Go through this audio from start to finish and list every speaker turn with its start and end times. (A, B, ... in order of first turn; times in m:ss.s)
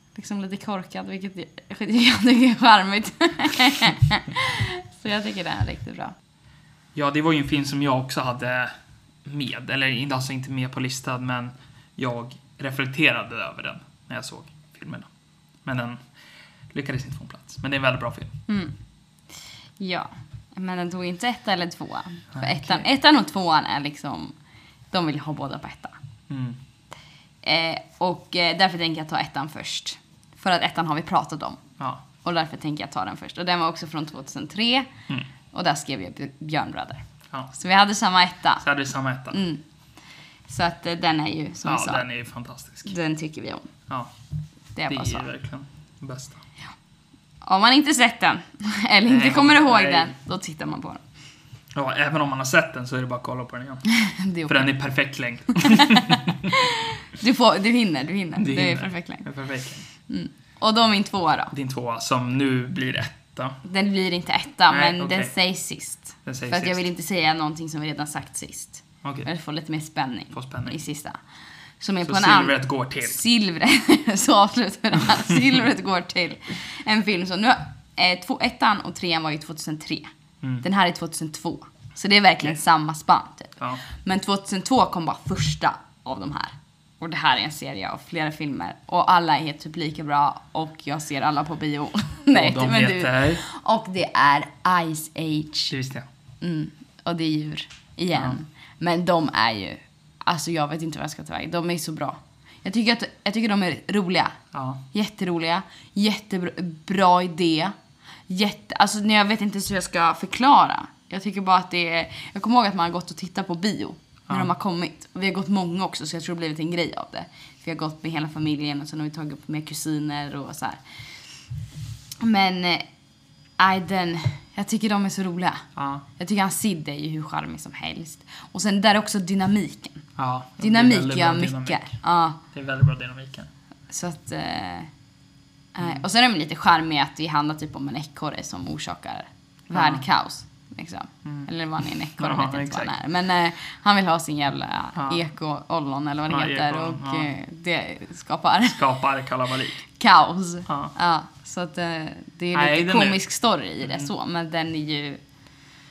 0:00.1-0:06.1 A
0:06.9-0:08.7 B
0:09.2-0:15.1 B
0:15.6-0:16.0 B
0:16.7-0:18.3 B
0:18.5-0:18.7 A
0:19.8-0:24.3 A
0:22.3-0:22.8 B
0:24.9-0:25.9 A
0:26.3-0:26.6 B
0:27.4-0:31.6 A
0:31.8-0:32.0 B
0:32.2-0:34.9 A
0:35.5-0:38.6 A
0:38.6-0:39.4 B
0:39.3-0:39.6 A
0:40.5-0:42.0 A
0:41.6-0:42.9 B
0:42.8-0:43.7 A
0:44.7-0:45.3 A
0:44.9-0:46.4 B
0:47.4-0:51.0 A
0:49.1-0:50.1 B
0:51.7-0:53.8 B
0:53.9-0:54.7 A
0:54.5-0:56.5 B
0:55.6-0:59.2 A
0:58.4-0:59.8 B
1:00.1-1:01.5 A
1:01.5-1:03.6 B
1:03.6-1:11.2 A
1:04.7-1:05.3 B
1:06.2-1:06.8 B
1:10.3-1:10.8 B
1:11.8-1:20.1 A
1:12.0-1:13.2 B
1:20.6-1:35.7 A
1:32.3-1:33.4 B
1:35.7-1:36.1 B
1:36.4-1:44.4 A
1:44.5-1:44.8 B
1:44.9-1:47.7 A
1:48.3-2:00.8 A
2:02.2-2:02.8 A
2:03.6-2:10.0 A
2:05.8-2:06.0 B
2:10.2-2:11.9 B
2:10.6-2:12.4 A
2:12.5-2:13.5 B
2:13.9-2:14.9 A
2:15.7-2:28.8 A
2:19.7-2:20.0 B
2:22.2-2:22.9 B
2:24.9-2:25.2 B
2:26.3-2:27.3 B
2:28.6-2:29.8 B
2:29.9-2:35.2 A
2:30.7-2:30.9 B
2:32.5-2:33.2 B